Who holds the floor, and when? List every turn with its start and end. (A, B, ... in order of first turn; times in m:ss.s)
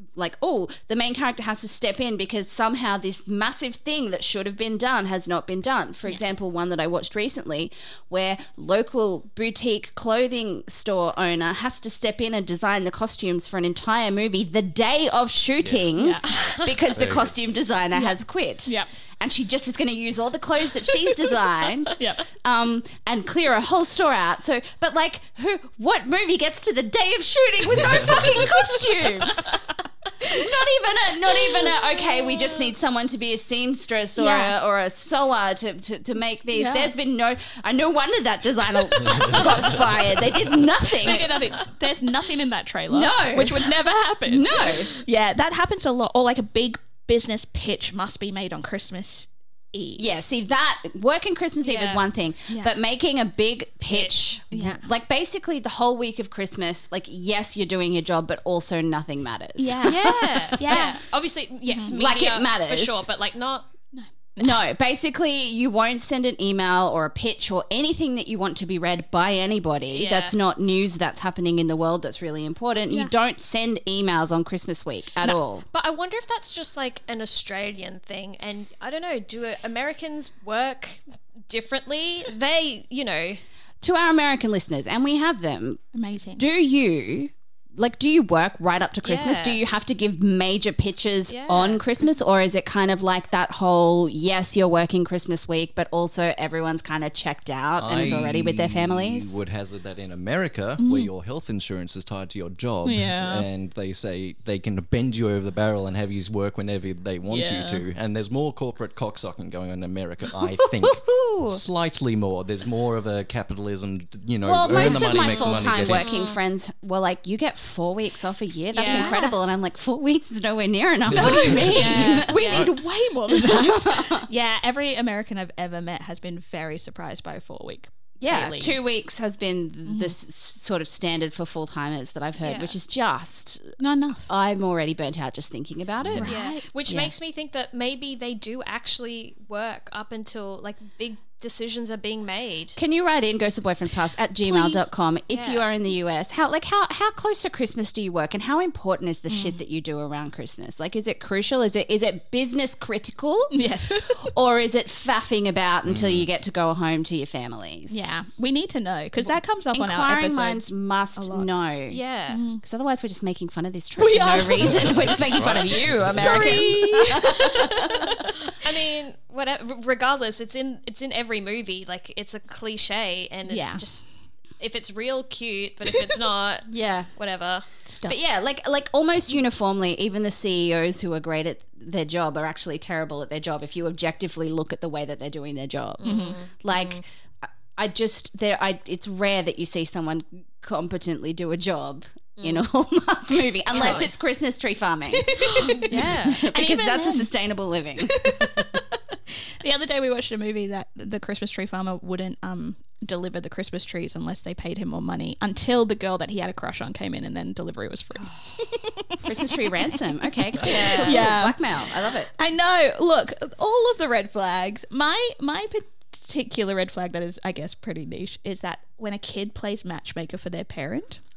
0:00.1-0:29.7 A
0:15.6-0:17.3 B
0:16.0-0:16.4 C
0:17.9-0:18.9 C
0:22.0-0:22.2 C
0:27.7-0:28.4 B
0:29.4-0:30.5 C
0:30.2-0:41.6 A
0:34.2-0:34.5 C
0:36.5-0:36.9 C
0:39.3-0:39.7 C
0:40.8-0:50.1 C
0:42.9-0:44.9 A
0:50.0-1:00.9 A
0:51.6-0:52.0 D
0:52.5-0:52.8 C
0:53.9-0:54.2 D
0:54.5-0:54.9 C
0:59.6-1:01.0 C
0:59.8-1:03.7 D
1:01.7-1:01.9 C
1:01.9-1:03.0 A
1:03.9-1:04.6 C
1:04.4-1:15.6 A
1:09.9-1:10.4 D
1:15.2-1:23.4 D
1:23.8-1:25.8 A
1:25.9-1:26.4 C
1:26.4-1:39.4 A
1:29.0-1:29.6 D
1:31.3-1:31.8 D
1:37.8-1:56.1 B
1:40.8-1:41.1 C
1:42.8-1:43.5 C
1:47.3-1:47.8 C
1:50.9-1:51.6 A
1:54.4-2:02.7 A
1:54.7-1:56.4 D
1:58.7-1:59.3 D
1:58.8-1:59.3 C
2:01.1-2:02.5 B
2:01.2-2:08.8 C
2:01.7-2:02.7 D
2:03.3-2:04.3 A
2:08.2-2:13.8 A
2:09.8-2:10.1 C
2:12.4-2:12.8 D
2:13.8-2:14.3 C
2:14.3-2:16.3 A
2:16.2-2:16.7 C
2:16.2-2:22.8 D
2:16.8-2:17.1 A
2:22.8-2:38.1 A
2:24.5-2:24.8 C
2:25.3-2:25.7 D
2:29.3-2:29.6 C
2:33.5-2:34.3 C
2:35.8-2:36.3 B
2:37.9-2:40.6 C
2:39.2-2:42.0 A
2:41.2-2:41.5 C
2:41.9-2:42.4 D
2:42.3-2:42.6 C
2:42.6-2:48.2 A
2:44.0-2:45.1 C
2:44.7-2:46.7 B
2:46.0-2:48.2 C
2:48.4-2:54.1 D
2:53.5-2:53.8 C
2:54.6-2:57.7 D
2:56.7-2:57.1 A
2:57.9-2:58.2 C
2:58.1-3:18.8 A
3:06.0-3:07.0 D
3:06.0-3:06.4 C
3:12.4-3:12.6 D
3:13.7-3:14.1 C
3:13.7-3:14.1 D
3:15.3-3:17.3 C
3:15.4-3:16.5 D
3:18.0-3:18.8 C
3:19.3-3:30.0 C
3:29.2-3:32.3 A
3:30.6-3:41.2 C
3:30.6-3:31.3 D